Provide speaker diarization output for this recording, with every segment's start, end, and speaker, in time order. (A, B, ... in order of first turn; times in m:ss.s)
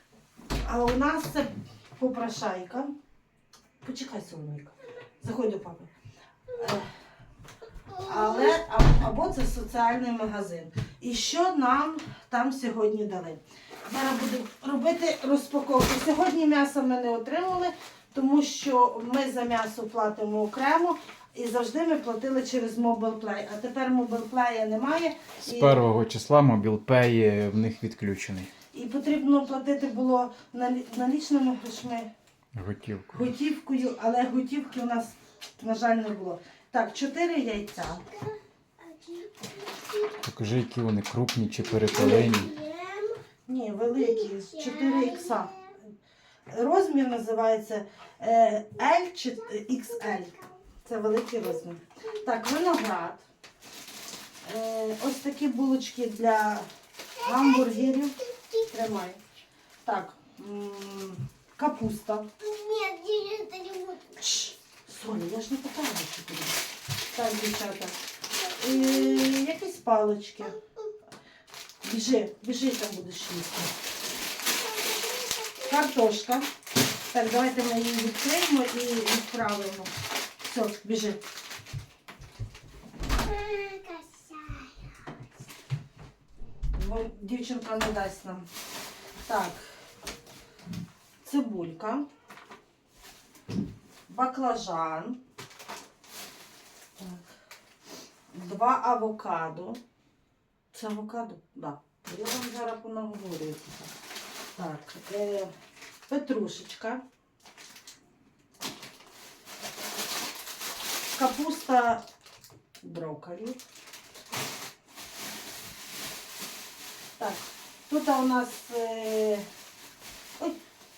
0:00.6-0:02.9 A
0:03.8-0:05.9 A
0:06.5-0:06.9 A
0:07.9-0:08.6 B
0:08.0-0:25.8 A
0:25.4-0:28.5 C
0:28.7-0:32.1 A
0:32.6-0:33.3 C
0:33.1-0:38.1 A
0:38.8-0:40.2 B
0:40.2-0:42.6 C
0:42.0-0:42.3 A
0:42.1-0:43.2 B
0:43.5-0:45.6 A
0:44.0-0:45.5 B
0:46.5-0:53.3 A
0:54.4-0:59.2 A
0:57.3-0:57.9 B
0:59.8-1:02.3 A
1:02.4-1:04.2 B
1:04.2-1:06.6 A
1:07.1-1:10.6 A
1:08.7-1:09.2 B
1:11.8-1:13.7 A
1:14.6-1:15.7 B
1:15.7-1:16.5 A
1:17.1-1:19.9 A
1:20.4-1:21.2 A
1:23.2-1:24.9 B
1:26.8-1:28.5 A
1:29.2-1:29.6 A
1:31.2-1:32.1 A
1:34.1-1:35.2 A
1:37.0-1:37.3 A
1:38.3-1:39.8 A
1:40.7-1:43.9 A
1:44.6-1:45.5 A
1:46.1-1:47.0 A
1:51.2-1:52.0 A
1:52.8-1:53.6 A
1:57.2-1:59.5 A